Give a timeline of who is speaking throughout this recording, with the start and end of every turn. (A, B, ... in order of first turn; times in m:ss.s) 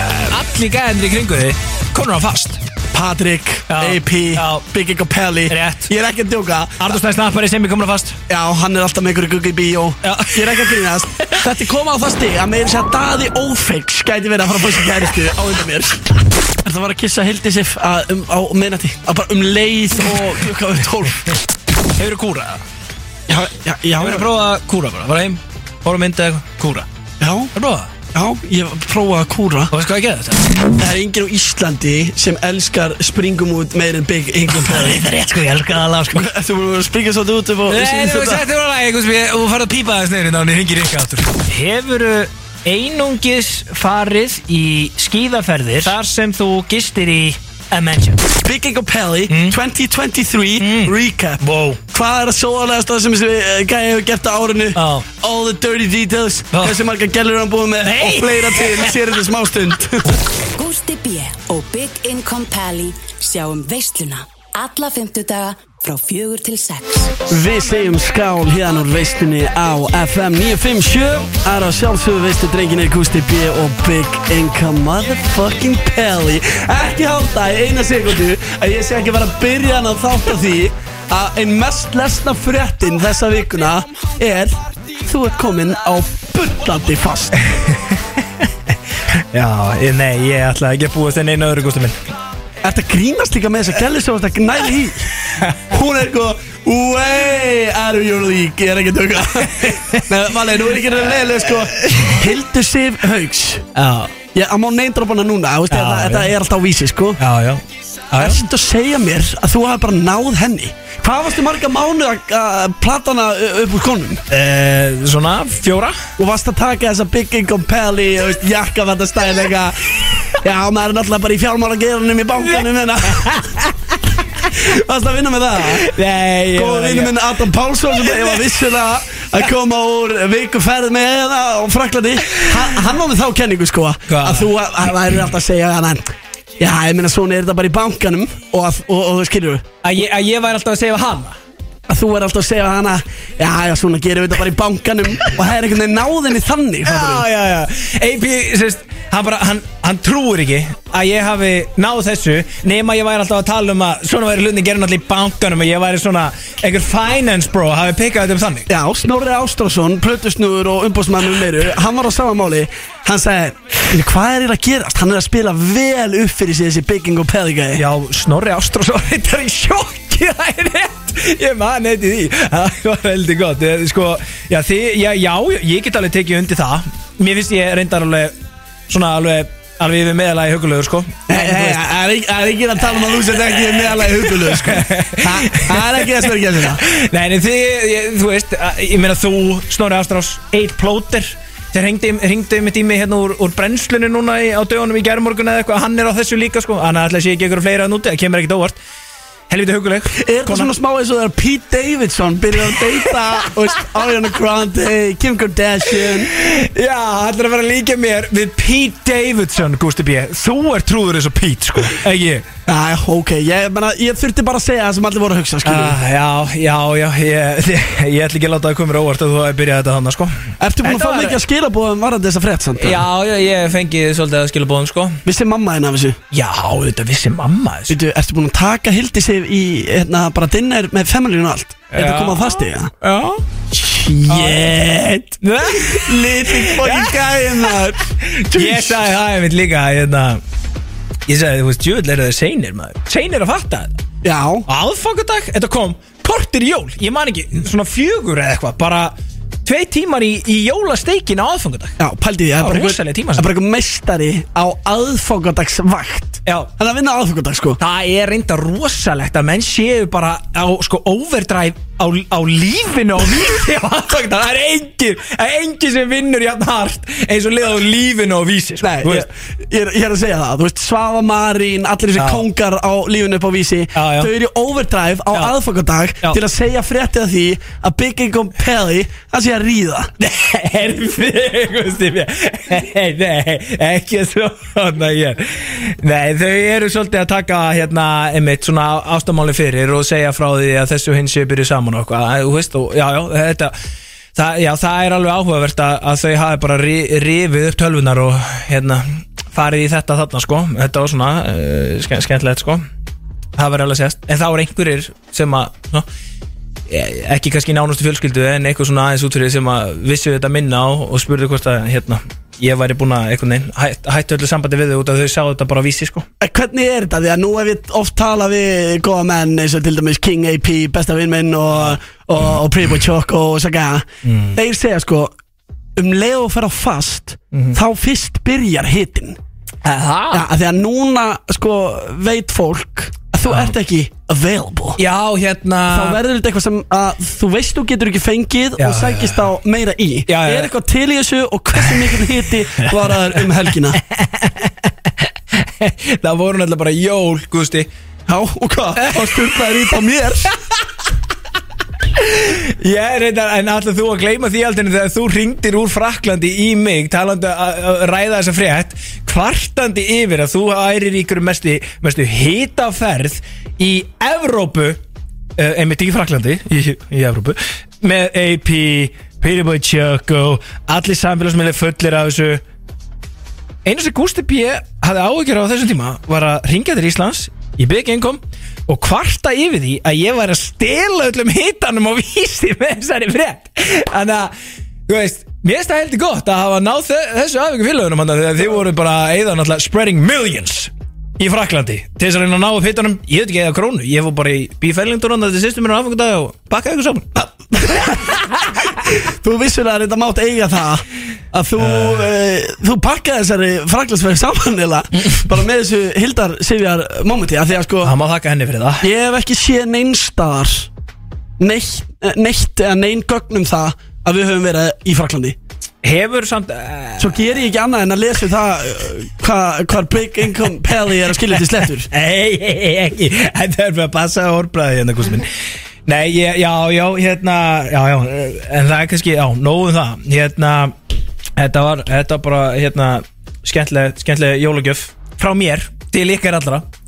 0:00.3-0:02.6 A
0:02.9-0:06.9 B
0:03.7-0:04.6 A
0:05.5-0:05.9 A
0:06.8-0:08.2 A
0:08.3-0:21.2 B
0:10.0-0:10.8 A
0:21.9-0:22.6 A
0:23.3-0:24.3 B
0:24.0-0:26.9 A
0:27.2-0:27.5 B
0:27.6-0:27.9 A
0:28.1-0:29.7 B
0:29.7-0:30.6 A
0:30.8-0:35.0 B
0:34.5-0:36.3 A
0:36.1-0:38.5 B
0:37.7-0:48.2 A
0:48.3-1:00.2 B
0:49.3-0:49.6 A
0:50.6-0:51.8 A
0:54.8-0:55.0 A
0:56.5-0:56.8 A
0:57.8-0:59.0 A
1:00.6-1:07.2 C
1:07.3-1:27.4 B
1:27.4-1:28.5 A
1:29.1-1:32.0 A
1:32.6-1:35.1 B
1:35.7-1:43.7 B
1:39.6-1:40.1 A
1:41.8-1:42.2 A
1:43.8-1:44.2 A
1:44.3-1:47.2 B
1:45.7-1:46.3 A
1:47.2-1:48.5 A
1:48.2-1:54.2 B
1:54.3-1:56.0 A
1:56.2-2:03.4 B
2:02.5-2:04.6 A
2:04.5-2:05.9 B
2:05.6-2:07.2 A
2:06.5-2:16.0 B
2:07.9-2:08.5 A
2:14.1-2:14.5 A
2:16.6-2:19.6 B
2:19.8-2:21.4 A
2:21.9-2:27.3 B
2:26.9-2:38.7 A
2:38.7-2:47.8 B
2:47.8-2:58.3 A
2:58.9-3:01.8 A
3:01.3-3:06.8 B
3:03.9-3:18.8 A
3:19.5-3:20.7 A
3:20.2-3:26.3 B
3:26.3-3:32.5 A
3:32.7-3:36.0 B
3:35.6-3:41.4 A
3:40.6-3:43.0 B
3:42.8-3:45.2 A
3:45.2-3:46.2 B
3:46.3-3:48.0 A
3:47.9-3:52.9 B
3:51.9-3:53.4 A
3:53.7-3:59.0 B
3:54.3-3:54.6 A
3:55.4-3:57.2 A
3:58.2-4:00.4 A
4:01.3-4:04.0 A
4:04.2-4:04.7 B
4:04.7-4:09.1 A
4:09.6-4:12.0 A
4:12.0-4:17.8 B
4:12.6-4:13.5 A
4:17.8-4:29.3 A
4:28.8-4:40.1 B
4:32.2-4:32.4 A
4:34.0-4:34.3 A
4:40.2-4:53.7 A
4:54.4-5:02.8 A
5:03.6-5:06.1 A
5:06.9-5:16.3 A
5:16.4-5:25.3 B
5:24.2-5:24.6 A
5:26.0-5:29.4 B
5:27.5-5:27.8 A
5:29.8-5:30.5 A
5:30.3-5:35.0 B
5:33.5-5:33.7 A
5:35.0-5:36.2 A
5:35.9-5:44.0 B
5:38.8-5:39.5 A
5:40.3-5:40.7 A
5:44.0-5:47.9 A
5:48.3-5:50.5 B
5:49.0-5:49.4 A
5:52.1-6:05.0 A
6:05.6-6:12.6 A
6:13.8-6:24.5 A
6:25.1-6:37.5 A
6:37.7-6:38.4 B
6:39.0-6:48.2 B
6:41.8-6:42.2 A
6:48.0-6:49.1 A
6:49.0-6:50.9 B
6:51.6-6:55.6 B
6:56.0-6:57.4 A
6:57.2-7:02.1 B
7:02.1-7:05.5 A
7:06.1-7:11.0 A
7:11.6-7:16.8 A